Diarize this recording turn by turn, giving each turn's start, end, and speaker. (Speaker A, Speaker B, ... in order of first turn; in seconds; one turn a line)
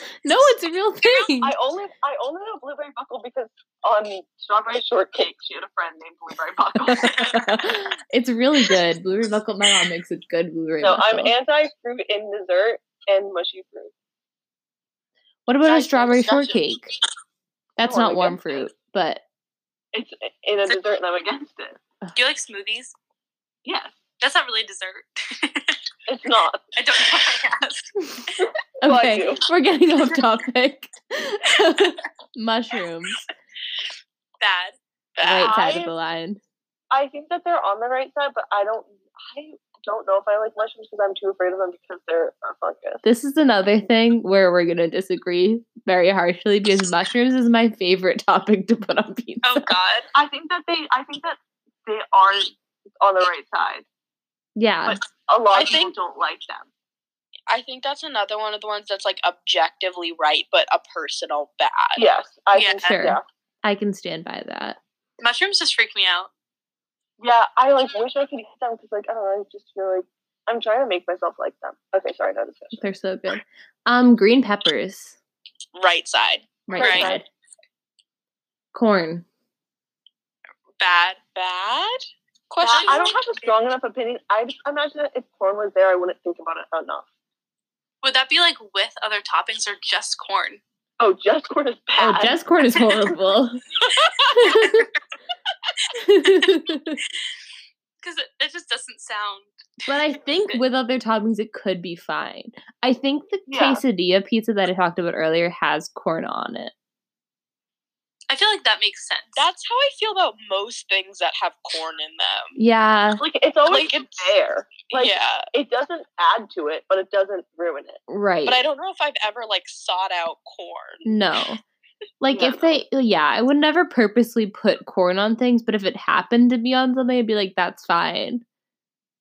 Speaker A: 0.2-1.5
Speaker B: 1.4-7.5
Speaker A: 6.9-11.3
Speaker B: 10.8-13.9
Speaker A: 15.5-16.9
Speaker C: 15.7-16.6
Speaker A: 17.8-19.2
Speaker B: 17.8-18.4
Speaker B: 19.9-21.8
Speaker D: 22.1-22.9
Speaker B: 23.6-24.0
Speaker D: 24.2-25.8
Speaker B: 26.1-26.7
Speaker D: 26.8-27.9
Speaker B: 28.8-29.4
Speaker A: 28.8-33.2
Speaker D: 34.4-34.8
Speaker C: 35.2-35.6
Speaker A: 35.2-36.4
Speaker B: 35.4-35.9
Speaker B: 36.9-43.0
Speaker A: 43.0-49.7
Speaker D: 49.4-50.1
Speaker B: 50.1-53.9
Speaker A: 54.6-55.0
Speaker B: 54.9-56.7
Speaker C: 55.5-55.9
Speaker C: 57.5-62.0
Speaker B: 62.0-63.2
Speaker D: 62.5-63.0
Speaker A: 62.8-64.8
Speaker D: 65.2-66.3
Speaker B: 67.2-72.8
Speaker A: 72.8-75.2
Speaker C: 75.8-76.6
Speaker A: 76.7-77.3
Speaker B: 76.7-77.2
Speaker D: 76.8-77.1
Speaker A: 78.7-79.2
Speaker D: 80.8-81.2
Speaker C: 81.3-83.1
Speaker B: 82.6-87.1
Speaker D: 82.7-83.1
Speaker D: 88.0-90.6
Speaker B: 91.0-92.4
Speaker A: 92.0-93.6
Speaker A: 94.3-94.9
Speaker D: 94.4-94.9
Speaker A: 95.9-97.0
Speaker D: 98.0-99.5
Speaker A: 99.9-106.7
Speaker B: 103.5-103.8
Speaker D: 108.3-109.5
Speaker C: 109.4-112.6
Speaker A: 112.6-113.2
Speaker B: 113.2-118.0
Speaker C: 113.6-114.3
Speaker C: 114.9-115.5
Speaker A: 118.1-118.6
Speaker C: 118.5-121.1
Speaker A: 121.0-121.6
Speaker A: 122.2-128.4
Speaker B: 122.3-122.8